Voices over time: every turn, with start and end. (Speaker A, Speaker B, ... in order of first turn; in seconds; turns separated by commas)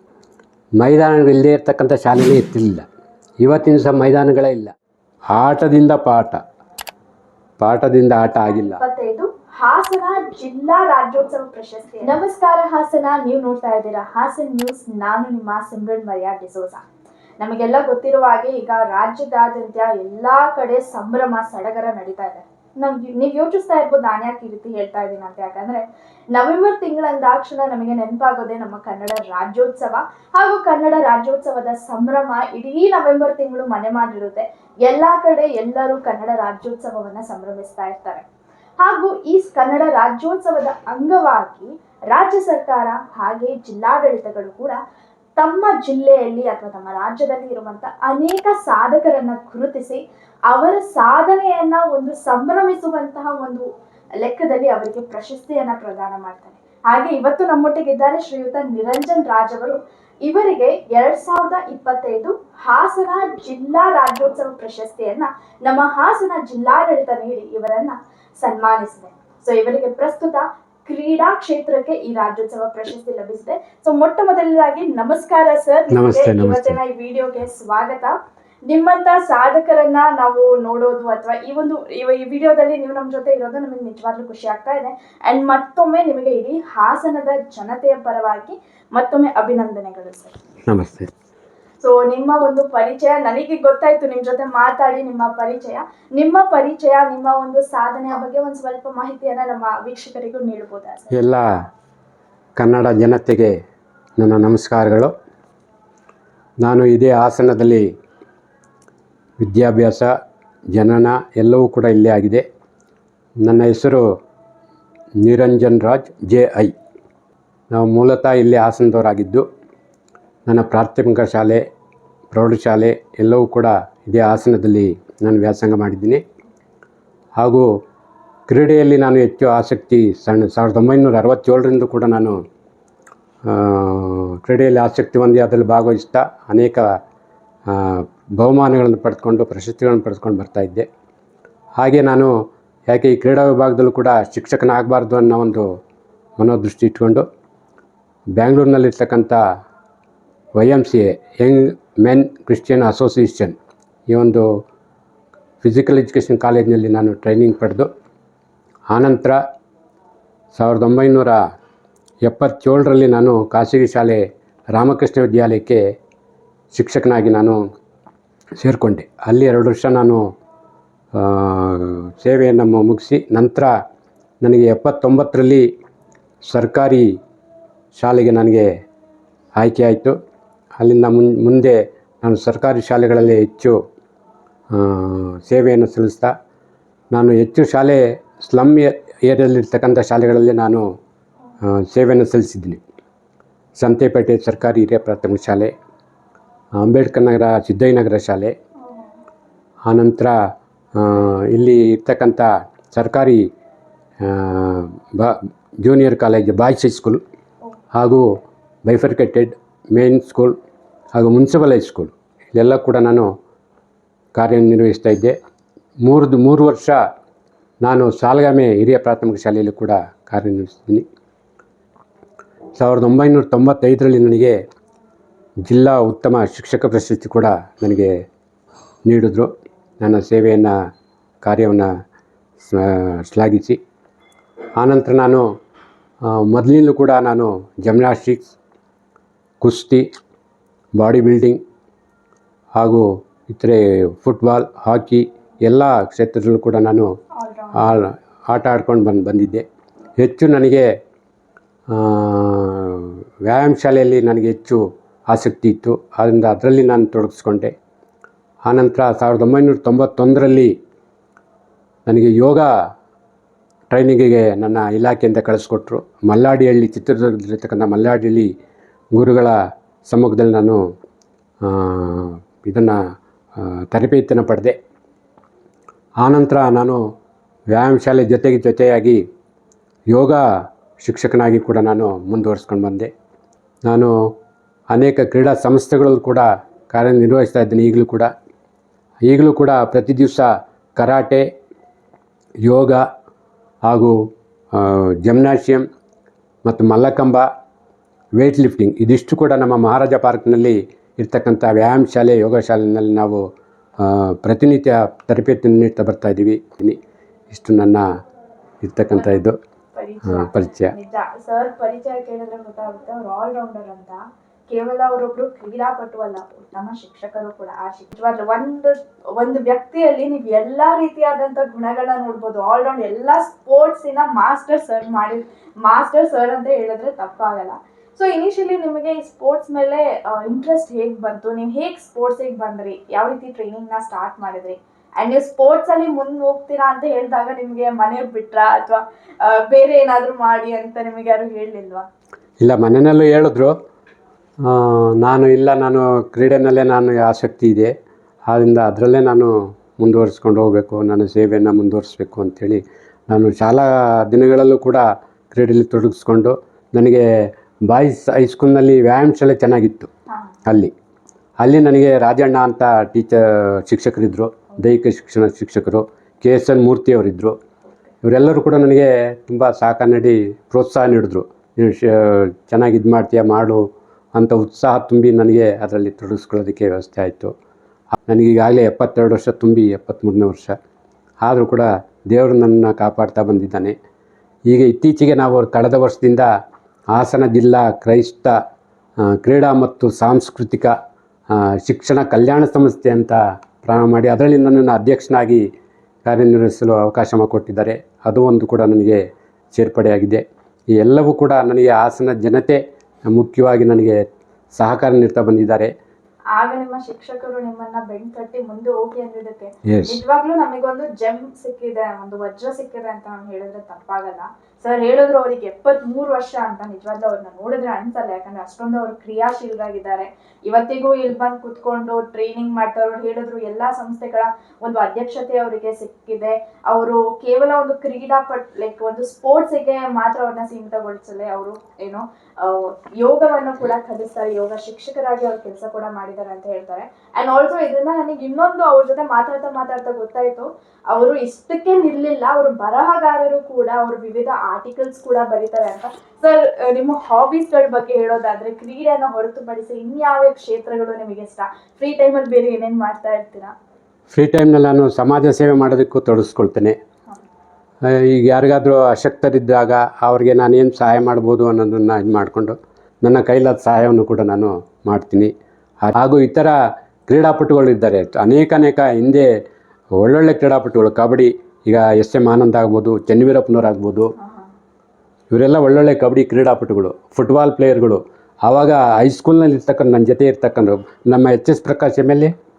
Speaker A: 0.8-2.8, Speaker A: 3.4-4.7, Speaker A: 5.3-6.4, Speaker A: 7.6-8.8, Speaker B: 8.5-16.8, Speaker B: 17.4-38.2, Speaker B: 38.8-44.8, Speaker B: 45.4-53.6, Speaker B: 54.2-78.1, Speaker A: 75.9-76.8, Speaker B: 78.7-90.4, Speaker A: 90.7-91.1, Speaker B: 91.8-101.1, Speaker A: 101.1-101.4, Speaker A: 102.6-103.5, Speaker A: 104.2-105.1, Speaker A: 106.6-107.8, Speaker A: 109.4-110.1, Speaker A: 110.7-112.4, Speaker A: 113.4-114.0, Speaker A: 115.2-116.7, Speaker A: 117.7-119.4, Speaker A: 120.5-121.6, Speaker A: 122.3-126.2, Speaker A: 127.4-127.7, Speaker A: 128.5-132.4, Speaker A: 133.4-136.8, Speaker A: 137.7-140.9, Speaker A: 141.8-142.3, Speaker A: 142.9-145.7, Speaker A: 146.4-147.2, Speaker A: 148.4-149.4, Speaker A: 150.5-153.6, Speaker A: 154.1-154.5, Speaker A: 155.6-157.9, Speaker A: 158.9-159.4, Speaker A: 160.5-161.4, Speaker A: 162.2-165.8, Speaker A: 166.7-167.6, Speaker A: 168.6-170.2, Speaker A: 171.1-173.7, Speaker A: 174.4-175.6, Speaker A: 176.5-177.1, Speaker A: 178.0-178.7, Speaker A: 179.6-180.1, Speaker A: 180.8-183.7, Speaker A: 184.7-186.3, Speaker A: 187.1-190.8, Speaker A: 191.6-192.8, Speaker A: 193.8-195.7, Speaker A: 196.8-198.5, Speaker B: 198.8-199.1, Speaker A: 199.9-200.3, Speaker A: 200.9-203.4, Speaker A: 204.2-207.2, Speaker A: 207.9-208.2, Speaker A: 208.9-210.5, Speaker A: 211.1-213.3, Speaker A: 214.3-215.3, Speaker A: 216.0-216.9, Speaker A: 217.8-221.1, Speaker A: 222.8-224.6, Speaker A: 225.6-228.1, Speaker A: 229.1-230.7, Speaker A: 231.4-231.9, Speaker A: 232.6-233.8, Speaker A: 234.8-235.5, Speaker A: 236.3-238.6, Speaker A: 239.6-240.0, Speaker A: 241.0-241.6, Speaker A: 242.8-247.1, Speaker B: 247.4-248.0, Speaker A: 247.7-249.6, Speaker A: 250.2-250.8, Speaker A: 251.9-257.7, Speaker A: 258.7-260.7, Speaker A: 262.1-262.7, Speaker A: 263.9-268.5, Speaker A: 269.1-269.5, Speaker A: 270.1-270.8, Speaker A: 271.6-273.0, Speaker A: 273.6-274.7, Speaker A: 276.2-277.0, Speaker A: 277.7-279.2, Speaker A: 280.1-280.4, Speaker A: 281.0-283.1, Speaker A: 283.9-284.1, Speaker A: 284.9-288.3, Speaker A: 289.3-290.5, Speaker A: 291.0-291.4, Speaker A: 292.6-293.0, Speaker A: 293.9-294.1, Speaker A: 294.7-295.8, Speaker A: 296.6-297.4, Speaker A: 298.4-303.4, Speaker A: 304.0-307.0, Speaker A: 307.5-308.0, Speaker A: 308.8-309.6, Speaker B: 309.1-342.1, Speaker A: 310.2-310.9, Speaker A: 342.6-343.7, Speaker A: 344.6-347.9, Speaker A: 348.5-357.2, Speaker A: 357.9-360.1, Speaker B: 360.3-360.6, Speaker A: 360.7-360.9, Speaker A: 361.6-367.5, Speaker A: 368.2-373.8, Speaker A: 374.3-377.5, Speaker A: 378.3-380.7, Speaker A: 381.4-383.9, Speaker A: 384.7-386.5, Speaker A: 387.1-388.5, Speaker A: 389.3-390.9, Speaker A: 391.8-395.6, Speaker A: 396.2-400.4, Speaker A: 400.9-405.9, Speaker B: 406.5-453.7, Speaker A: 409.9-410.2, Speaker A: 454.3-456.9, Speaker A: 458.1-465.5, Speaker A: 466.0-466.8, Speaker A: 467.3-469.5, Speaker A: 470.2-474.3, Speaker B: 474.4-474.7, Speaker A: 475.5-482.5